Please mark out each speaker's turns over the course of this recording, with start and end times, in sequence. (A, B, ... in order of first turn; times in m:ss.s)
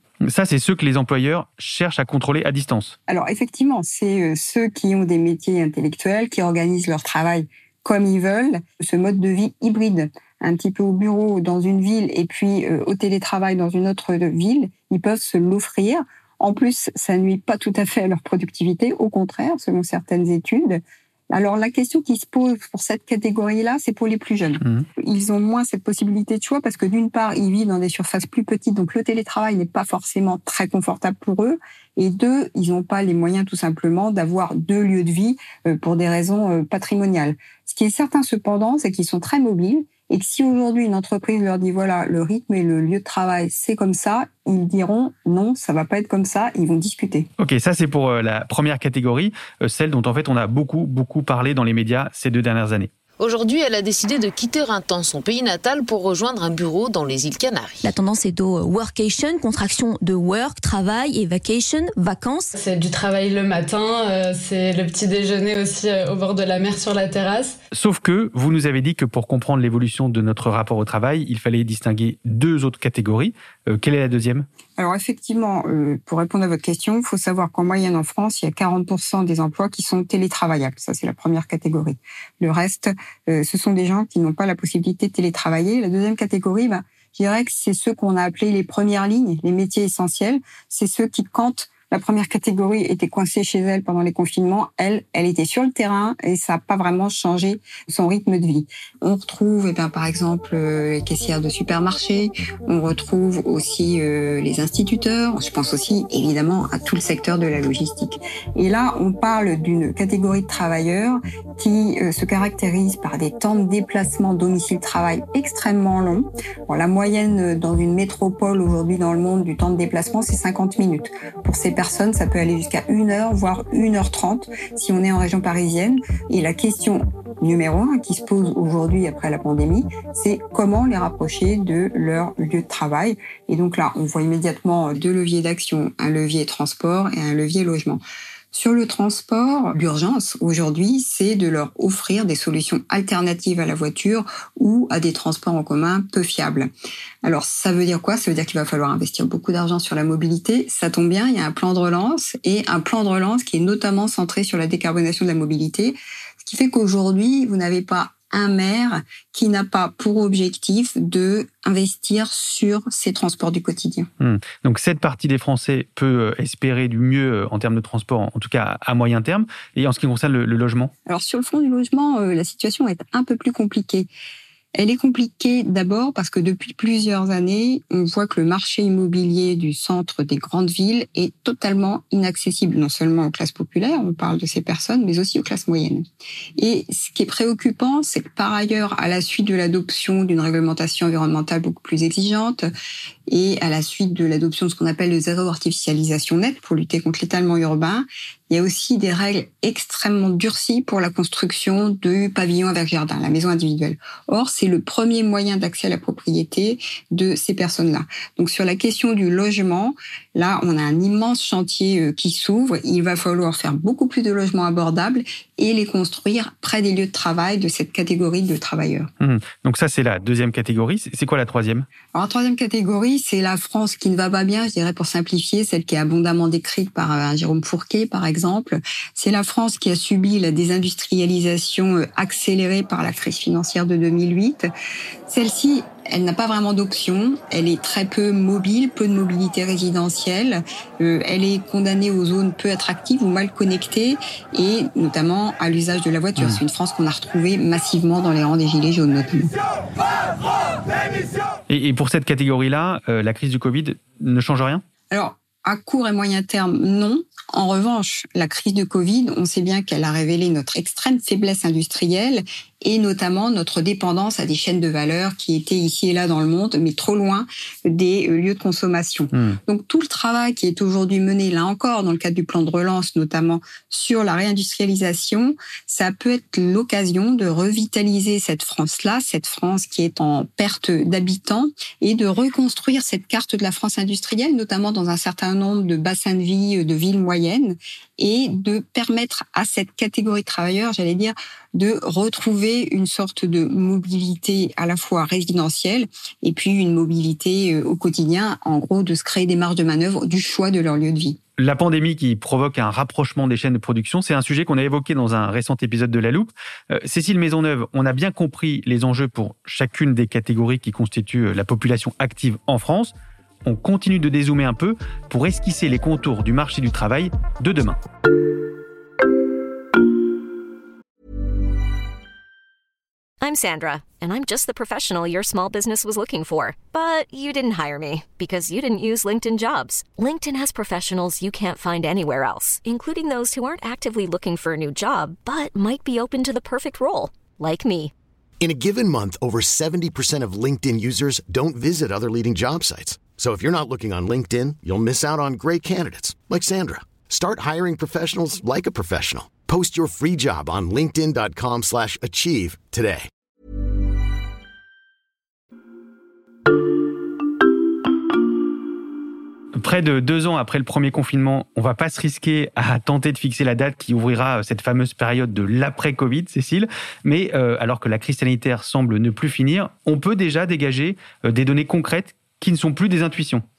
0:00.2-0:03.0 A
0:03.1-0:47.3 B
0:47.4-0:52.9 A
0:53.2-0:57.9 C
0:57.8-1:02.5 D
1:02.5-1:07.5 E
1:07.7-1:14.4 A
1:14.8-2:18.0 B
2:18.5-2:26.7 B
2:27.2-2:44.1 B
2:44.2-2:50.9 A
2:51.0-2:54.1 B
2:54.8-3:06.0 B
3:06.6-3:12.7 B
3:13.3-3:39.1 B
3:39.2-3:41.9 A
3:42.1-3:54.7 B
3:55.3-4:09.6 B
4:11.7-4:14.8 A
4:15.1-5:01.4 B
5:01.6-5:13.1 A
5:13.6-5:18.0 A
5:23.4-5:38.1 F
5:38.6-5:53.3 G
5:59.8-6:13.6 A